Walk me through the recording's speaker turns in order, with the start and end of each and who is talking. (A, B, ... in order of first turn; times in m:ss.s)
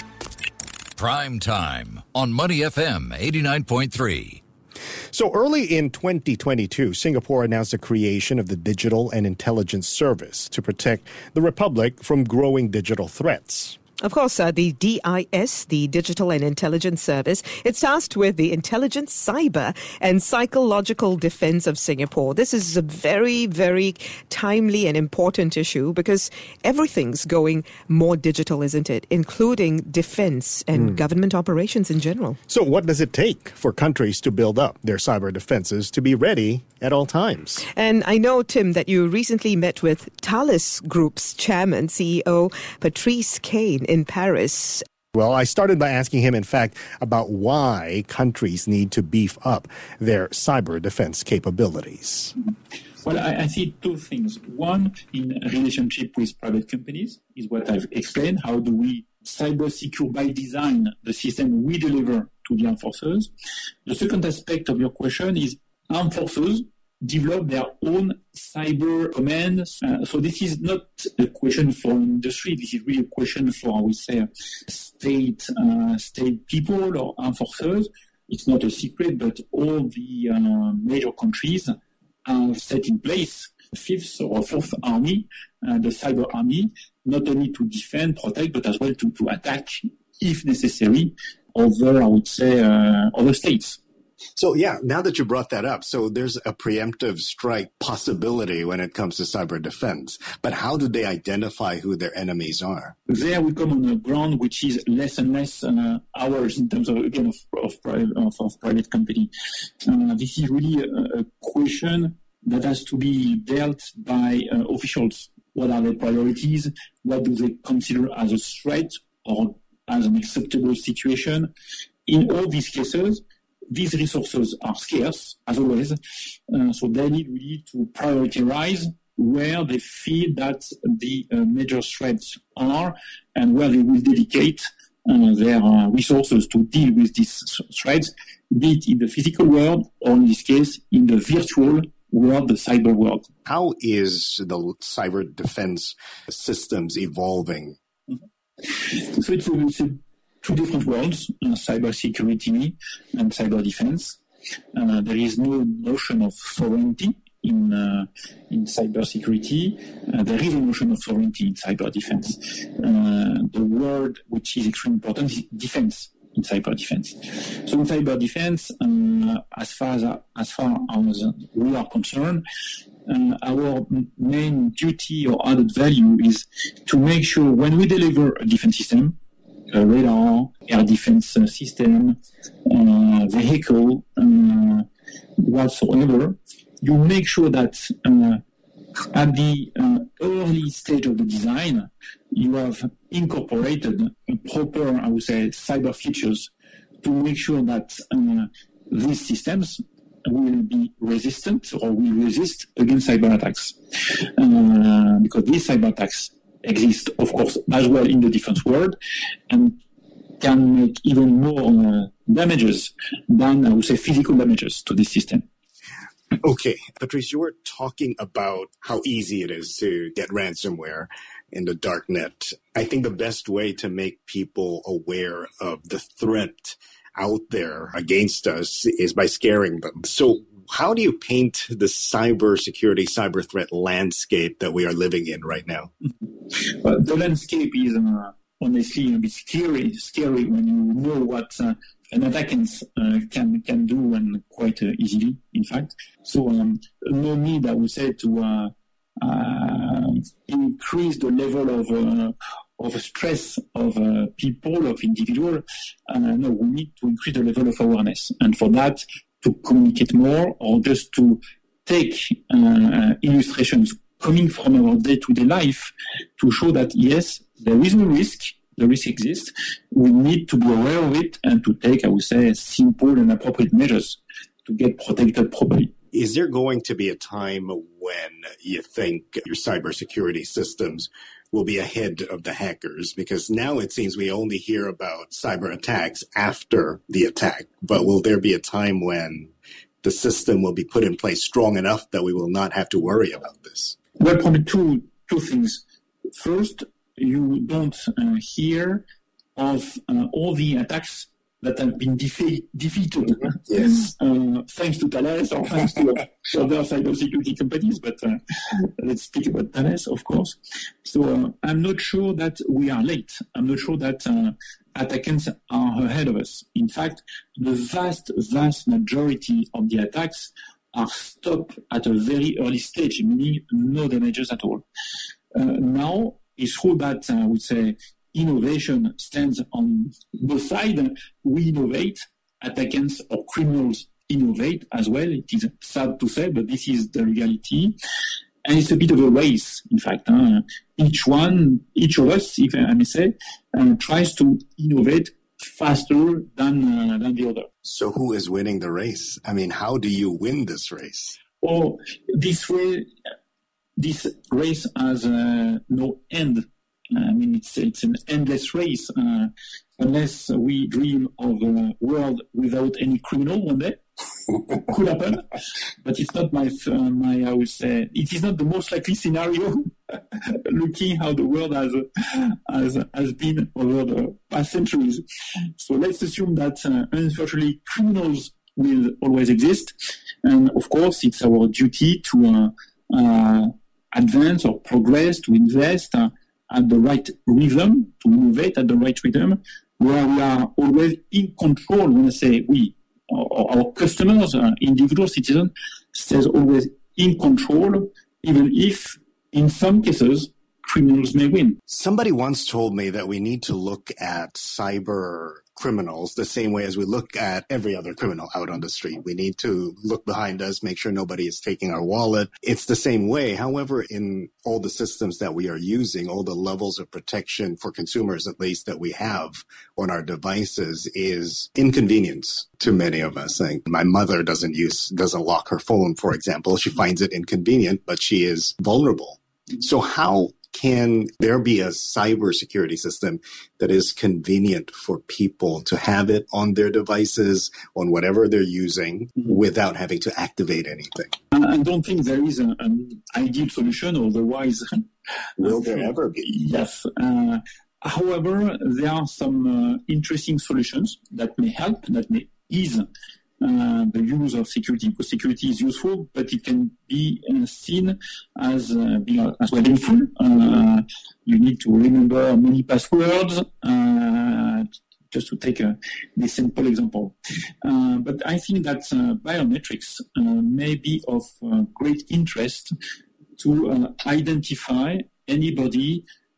0:01.0-0:04.4 A
0:05.1-0:13.8 B
0:14.0-0:32.4 C
0:30.7-0:31.0 B
0:32.5-0:37.7 B
0:37.6-0:44.8 C
0:45.1-0:52.3 B
0:52.4-1:03.3 D
1:03.9-1:21.7 D
1:22.3-1:33.8 D
1:34.4-1:43.0 B
1:43.1-1:49.3 D
1:49.8-2:01.5 D
2:02.1-2:23.3 D
2:23.5-2:27.8 B
2:28.7-2:34.2 D
2:34.7-2:52.4 D
2:53.1-2:59.2 D
2:59.7-3:04.9 D
3:05.4-3:08.4 D
3:09.1-3:16.5 D
3:17.0-3:29.0 D
3:29.5-3:29.8 D
3:30.4-3:35.4 D
3:36.4-3:55.9 B
3:56.1-4:35.9 D
4:36.1-4:54.0 B
4:54.2-4:55.8 D
4:56.3-4:59.0 D
4:59.6-5:24.8 D
5:03.7-5:03.9 B
5:25.5-5:38.0 D
5:38.6-5:47.7 D
5:47.8-5:51.4 B
5:51.6-5:53.1 D
5:54.0-6:15.2 D
6:15.8-6:41.8 D
6:41.9-7:21.4 B
7:21.5-7:33.1 D
7:25.6-7:26.5 B
7:33.6-7:52.9 D
7:53.6-7:56.2 D